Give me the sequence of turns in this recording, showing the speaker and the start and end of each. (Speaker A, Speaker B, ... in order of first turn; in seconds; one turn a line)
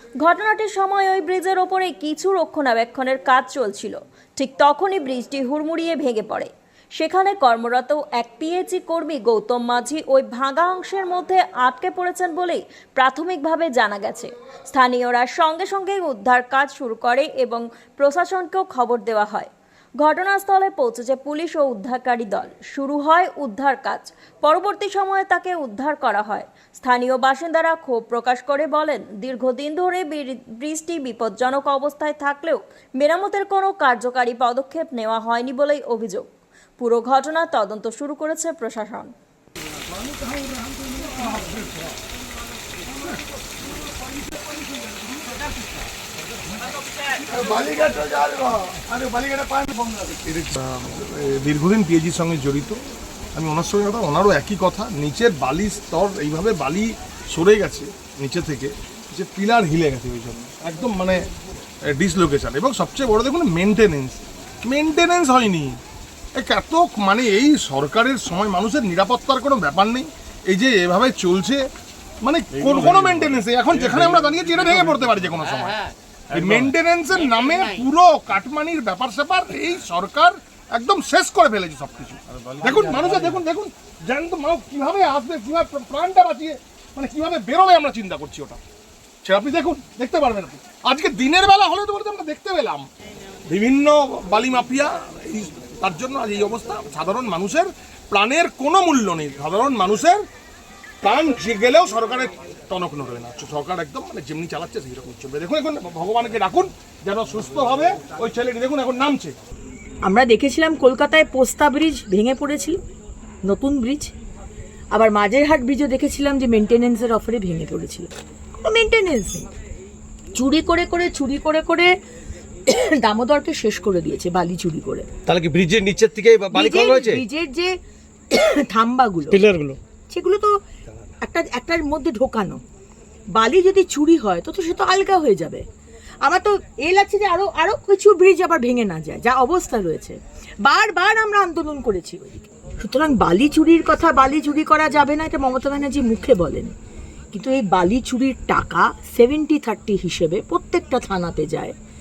Speaker A: 0.2-36.3
Speaker A: 36.8-39.1
Speaker B: 39.9-41.7
Speaker B: 47.3-52.8
Speaker B: 53.4-61.2
Speaker B: 61.9-65.8
Speaker B: 66.3-71.7
Speaker B: 72.2-75.8
Speaker C: 72.6-75.2
Speaker C: 76.3-76.7
Speaker B: 76.3-88.6
Speaker C: 82.3-83.4
Speaker B: 89.2-92.9
Speaker B: 93.5-100.2
Speaker B: 101.0-109.3
Speaker D: 110.0-112.8
Speaker D: 113.5-114.1
Speaker D: 114.9-118.1
Speaker D: 118.6-119.5
Speaker D: 120.3-121.9
Speaker D: 122.7-125.1
Speaker C: 125.2-127.2
Speaker D: 126.5-127.7
Speaker D: 128.3-129.5
Speaker C: 129.3-129.8
Speaker D: 130.1-130.5
Speaker D: 131.2-132.6
Speaker D: 133.4-135.6
Speaker D: 136.2-146.7
Speaker D: 147.3-151.7